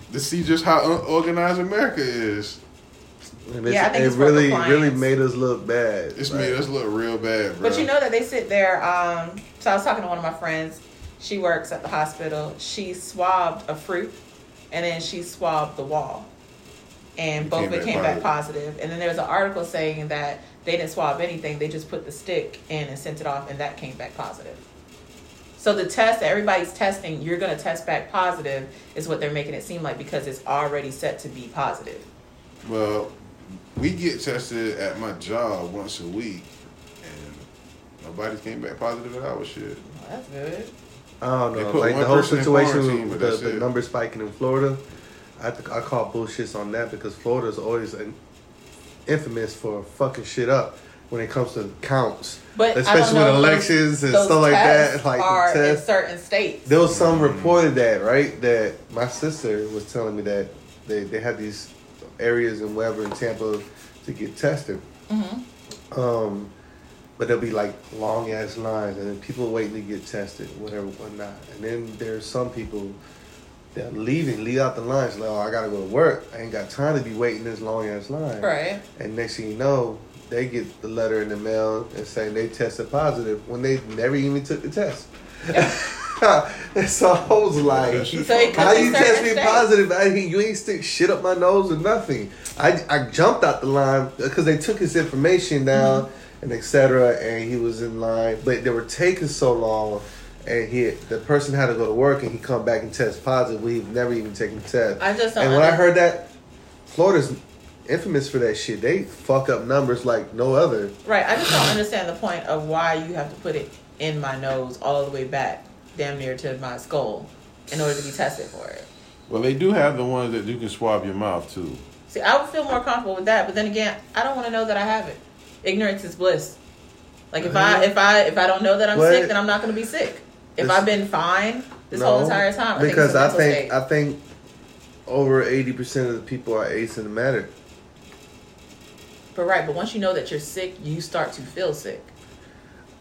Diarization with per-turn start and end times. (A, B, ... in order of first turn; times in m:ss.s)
0:00.1-0:02.6 A
0:03.5-0:06.6 B
0:03.6-0:05.0 C
0:06.2-0:07.9 A
0:07.6-0:14.1 C
0:14.7-0:16.3 C
0:17.2-0:24.6 C
0:17.4-0:18.3 A
0:25.6-0:32.0 C
0:32.6-0:33.2 A
0:33.7-0:36.5 A
0:37.0-0:37.4 A
0:38.0-0:39.8 A
0:39.9-0:40.7 C
0:41.2-0:44.8 B
0:41.5-0:43.6 A
0:45.4-0:48.2 B
0:49.0-0:55.8 B
0:52.5-0:56.7 C
0:56.6-1:04.8 B
0:56.8-0:57.6 A
1:05.1-1:05.4 C
1:05.9-1:06.5 B
1:07.2-1:13.0 B
1:13.7-1:46.3 B
1:18.4-1:18.8 C
1:27.6-1:29.1 A
1:28.2-1:29.7 C
1:35.7-1:36.0 C
1:45.0-1:45.8 C
1:46.9-1:50.9 B
1:51.0-1:58.9 C
1:59.3-2:01.8 A
2:02.1-2:06.6 C
2:07.3-2:13.7 C
2:07.4-2:07.9 B
2:08.9-2:09.3 B
2:10.6-2:10.9 B
2:11.9-2:14.2 B
2:15.1-2:17.5 B
2:19.3-2:22.1 C